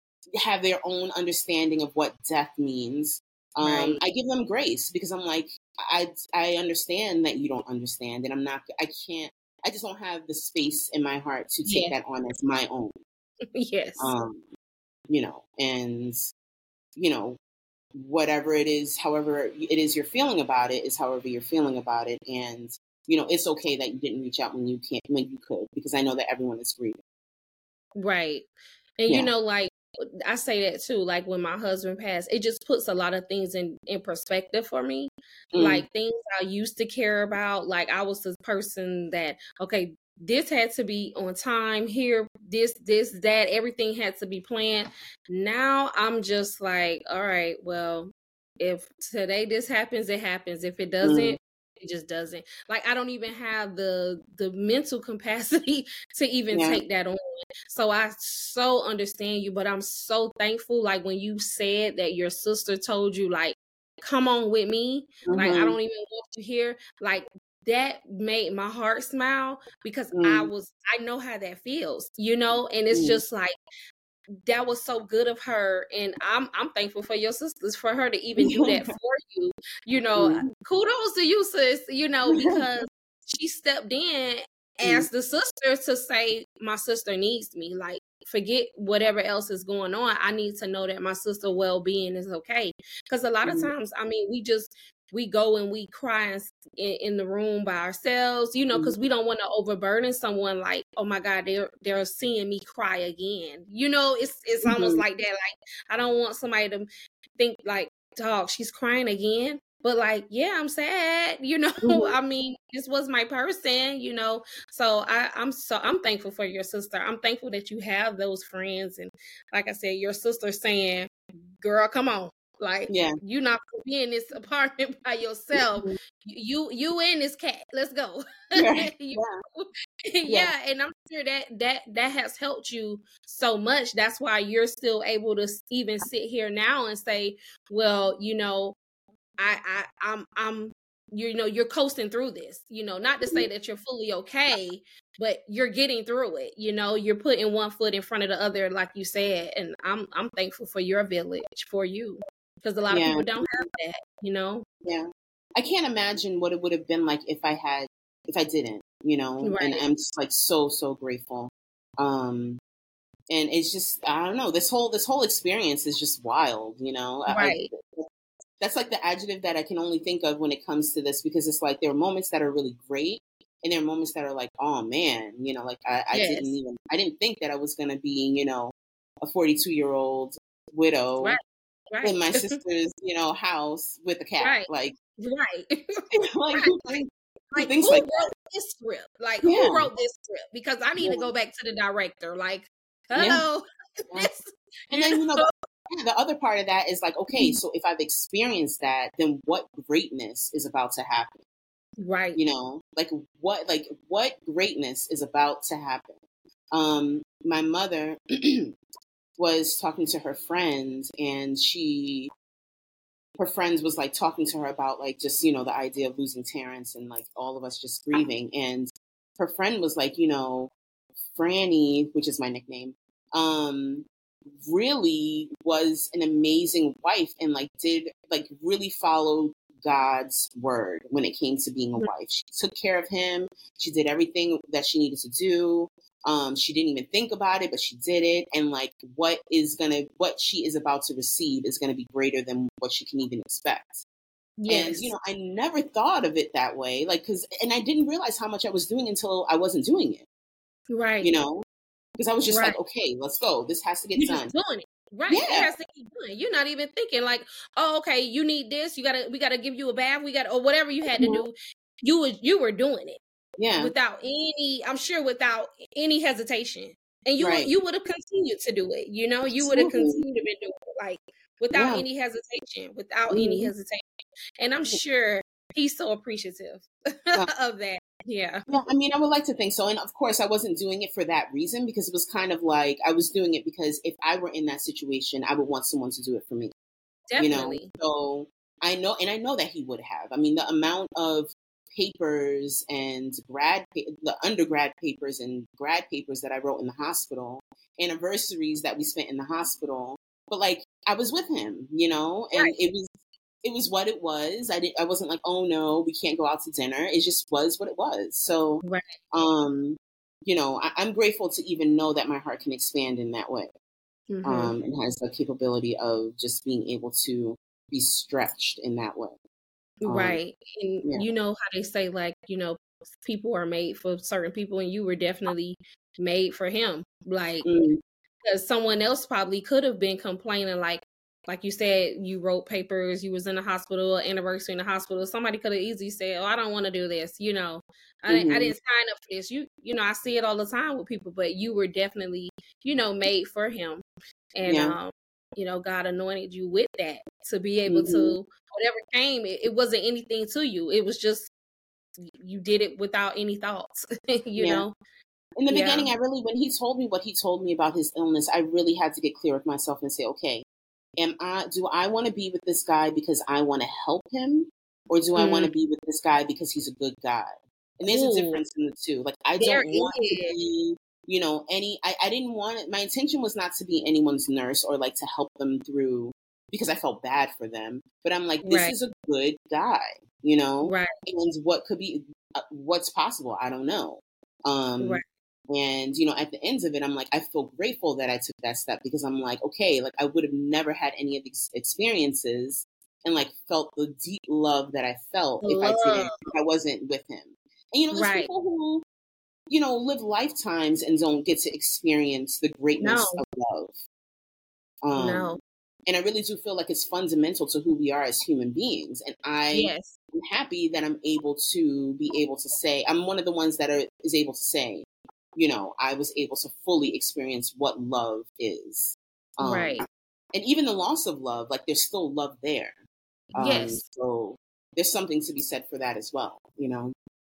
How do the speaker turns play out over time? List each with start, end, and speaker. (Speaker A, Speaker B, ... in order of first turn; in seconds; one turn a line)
Speaker A: 0.4-13.0
Speaker B: 3.6-4.0
Speaker B: 11.6-11.9
Speaker B: 13.5-14.1
Speaker A: 14.0-14.4
Speaker A: 15.1-16.3
Speaker A: 16.9-17.4
Speaker A: 17.9-27.0
Speaker B: 28.0-29.7
Speaker B: 30.2-73.5
Speaker A: 35.5-35.8
Speaker A: 51.0-51.4
Speaker A: 56.5-56.8
Speaker A: 65.2-65.8
Speaker A: 70.1-70.5
Speaker A: 72.9-73.2
Speaker B: 74.4-106.8
Speaker A: 78.4-78.9
Speaker A: 80.2-80.5
Speaker A: 82.3-82.6
Speaker A: 93.5-93.7
Speaker A: 104.6-105.0
Speaker B: 107.4-138.8
Speaker A: 111.8-112.1
Speaker A: 122.9-123.2
Speaker A: 125.5-125.9
Speaker A: 128.6-129.4
Speaker A: 130.3-130.5
Speaker B: 139.4-154.7
Speaker A: 152.9-153.5
Speaker A: 154.8-162.6
Speaker B: 159.4-159.8
Speaker A: 163.3-168.1
Speaker B: 167.3-167.7
Speaker A: 168.6-181.4
Speaker B: 176.1-176.5
Speaker B: 181.9-182.6
Speaker A: 182.0-184.9
Speaker B: 184.4-185.8
Speaker A: 186.1-187.0
Speaker B: 186.5-193.6
Speaker A: 187.6-188.3
Speaker A: 189.4-189.9
Speaker A: 191.0-191.3
Speaker A: 193.2-193.4
Speaker B: 194.1-195.5
Speaker A: 194.9-201.4
Speaker B: 197.3-197.6
Speaker B: 202.0-202.4
Speaker A: 202.3-206.2
Speaker A: 206.7-208.7
Speaker A: 209.4-212.3
Speaker A: 213.4-220.7
Speaker A: 221.3-224.1
Speaker A: 224.6-244.0
Speaker B: 244.6-245.1
Speaker A: 244.7-250.2
Speaker B: 250.9-251.3
Speaker A: 251.2-251.6
Speaker A: 252.2-254.5
Speaker B: 252.5-252.8
Speaker B: 254.2-263.2
Speaker A: 255.3-255.7
Speaker A: 261.2-261.4
Speaker A: 263.6-263.9
Speaker B: 263.8-274.0
Speaker A: 267.4-267.7
Speaker A: 269.5-270.2
Speaker A: 271.7-272.0
Speaker A: 273.3-273.7
Speaker B: 274.6-278.6
Speaker A: 278.7-286.7
Speaker B: 287.3-287.9
Speaker A: 287.4-303.1
Speaker A: 303.6-313.7
Speaker B: 308.8-309.1
Speaker B: 314.3-314.7
Speaker A: 314.4-319.4
Speaker B: 320.0-327.7
Speaker A: 320.1-320.4
Speaker A: 327.6-328.0
Speaker B: 328.4-344.0
Speaker A: 338.3-338.7
Speaker B: 344.6-351.5
Speaker A: 344.6-345.0
Speaker A: 347.9-348.4
Speaker B: 352.3-354.9
Speaker A: 354.6-354.8
Speaker A: 355.6-360.6
Speaker B: 355.7-356.1
Speaker A: 361.2-399.0
Speaker B: 365.3-365.7
Speaker B: 368.1-368.6
Speaker B: 369.6-370.6
Speaker B: 378.6-378.9
Speaker B: 380.8-381.1
Speaker B: 395.6-396.5
Speaker B: 398.1-398.5
Speaker A: 399.7-404.0
Speaker B: 403.0-403.4
Speaker A: 405.0-420.0
Speaker B: 405.1-405.6
Speaker B: 409.7-410.1
Speaker B: 419.6-420.0
Speaker A: 420.5-423.0
Speaker A: 423.5-427.1
Speaker B: 423.6-424.0